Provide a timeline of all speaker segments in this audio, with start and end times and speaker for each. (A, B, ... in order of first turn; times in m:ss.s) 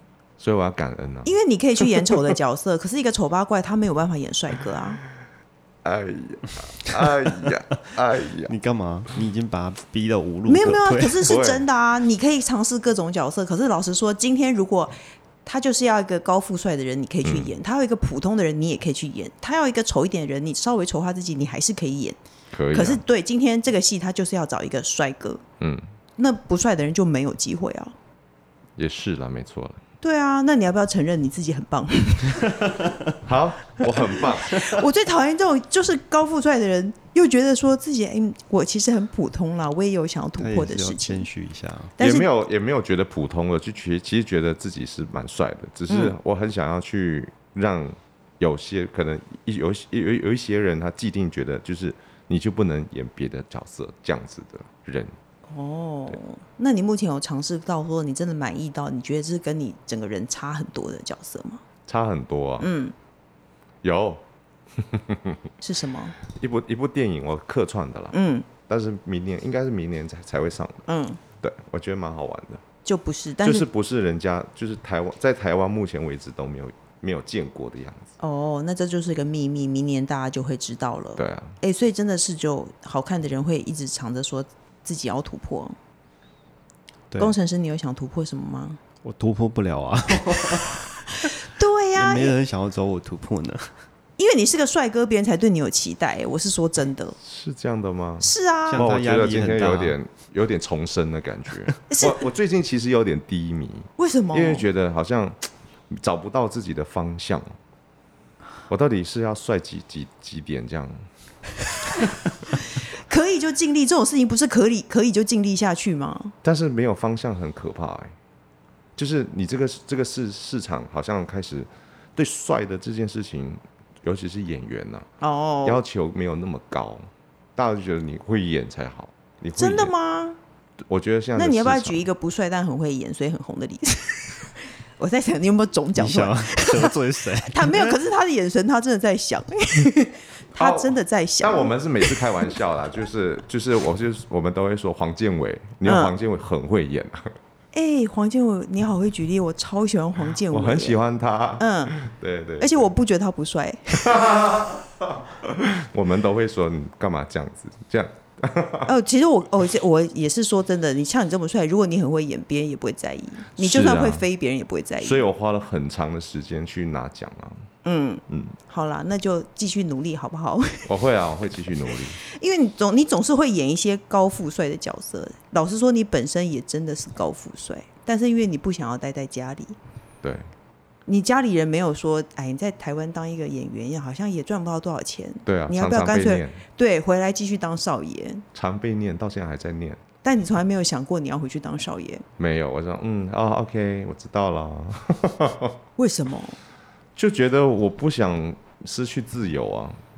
0:00.4-0:01.4 A
0:01.2-0:05.0 B
0:05.8-0:08.5 A
0:08.5-0:11.3 C
0:10.5-0:14.9 B
0:11.2-0:11.7 A
0:15.4-0:22.2 B
0:17.2-0:17.5 A
0:22.5-0:23.0 A
0:22.7-0:25.4 B
0:25.6-0:25.9 A
0:26.2-0:28.0 B
0:28.8-0:29.8 A
0:30.0-0:32.8 B
0:33.2-0:34.7 A
0:34.2-0:41.3 B
0:40.4-0:42.0 C
0:42.0-0:42.3 B
0:42.0-0:55.1 A
0:45.9-0:46.2 B
0:55.5-1:01.6 B
1:01.9-1:02.7 A
1:02.6-1:02.9 B
1:03.8-1:04.2 A
1:04.7-1:05.4 A
1:05.6-1:06.2 B
1:06.3-1:08.2 A
1:08.1-1:08.5 B
1:08.7-1:10.9 A
1:10.9-1:11.2 B
1:11.4-1:12.6 A
1:12.8-1:13.7 B
1:13.4-1:18.1 A
1:18.2-1:25.8 B
1:21.2-1:21.6 A
1:27.1-1:27.4 C
1:27.2-1:28.8 B
1:29.0-1:31.4 C
1:31.2-1:32.4 B
1:31.9-1:33.7 C
1:34.2-1:37.2 B
1:37.2-1:47.6 A
1:38.2-1:38.9 B
1:38.7-1:40.0 C
1:41.9-1:42.2 B
1:44.0-1:44.7 B
1:48.7-1:51.0 A
1:52.6-1:56.4 B
1:56.4-1:58.2 A
1:59.0-2:05.1 A
2:05.2-2:05.8 B
2:05.6-2:09.9 A
2:09.6-2:10.4 B
2:10.9-2:12.1 A
2:11.4-2:14.4 B
2:15.0-2:22.5 B
2:16.0-2:18.0 C
2:20.5-2:27.3 A
2:25.8-2:26.1 B
2:27.7-2:31.0 B
2:30.5-2:32.9 A
2:31.6-2:32.0 B
2:32.6-2:34.5 B
2:34.0-2:38.9 A
2:38.9-2:45.2 B
2:43.5-2:44.2 A
2:45.0-2:47.7 A
2:47.8-2:50.9 B
2:48.3-2:48.6 A
2:50.9-2:52.2 A
2:52.2-2:59.8 B
3:00.2-3:00.5 A
3:01.1-3:08.5 B
3:05.5-3:06.6 A
3:08.5-3:10.0 A
3:10.2-3:12.2 B
3:12.4-3:15.8 A
3:16.0-3:16.6 B
3:17.2-3:20.0 A